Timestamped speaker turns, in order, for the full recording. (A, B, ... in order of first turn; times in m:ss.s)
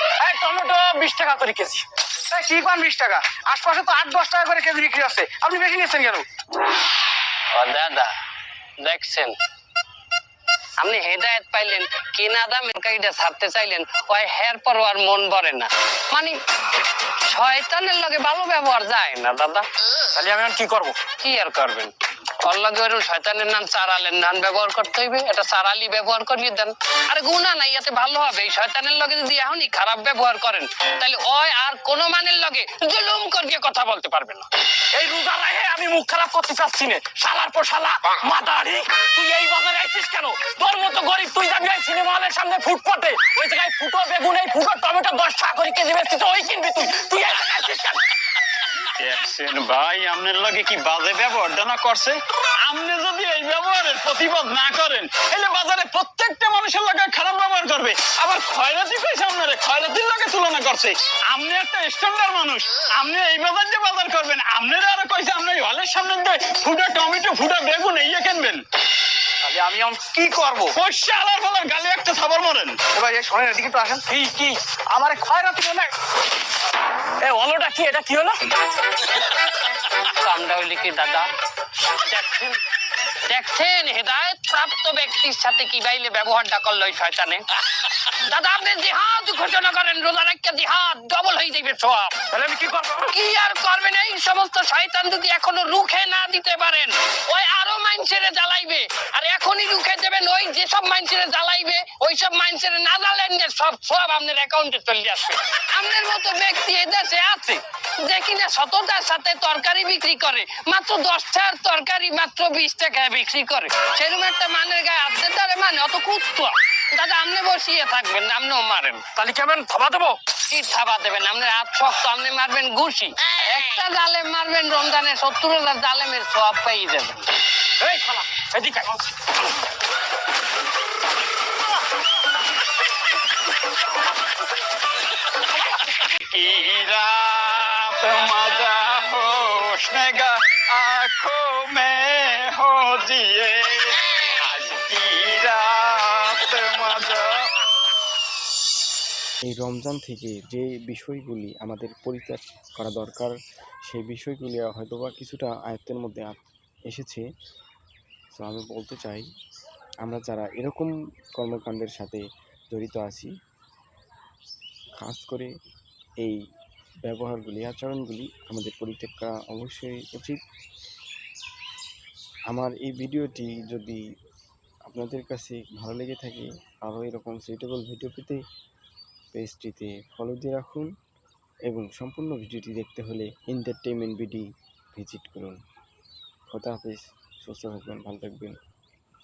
0:00.2-0:01.8 A
0:02.3-0:06.3 B
0:07.5-0:08.1 C
0:08.8-0:09.4 C
0:10.8-0:16.4 C
0:17.3-0:19.7 C
0:20.1-0:21.0 A
0:21.2-0:21.9 C
0:22.4-0:34.5 C
0:34.9-0:48.0 A
0:49.0-1:08.6 D
1:09.4-1:10.7 A
1:10.8-1:12.8 D
1:13.0-1:14.0 B
1:14.1-1:15.5 A
1:15.2-1:15.8 B
1:17.2-1:18.5 A
1:20.2-1:21.3 C
1:22.0-1:22.6 C
1:23.3-1:27.4 C
1:28.1-1:32.2 C
1:32.3-1:33.1 A
1:33.1-1:59.1 C
1:59.1-2:00.2 A
2:00.5-2:07.2 C
2:07.8-2:08.9 A
2:16.1-2:27.5 D
2:29.4-2:33.4 E
2:33.9-2:37.3 E
2:38.4-2:39.3 E
2:40.0-2:43.3 E
2:45.0-2:45.5 E
2:47.0-2:50.4 E
2:52.5-2:54.0 E
2:54.9-2:58.4 E
2:59.3-3:00.9 E
3:01.7-3:05.6 E
3:06.5-3:08.6 E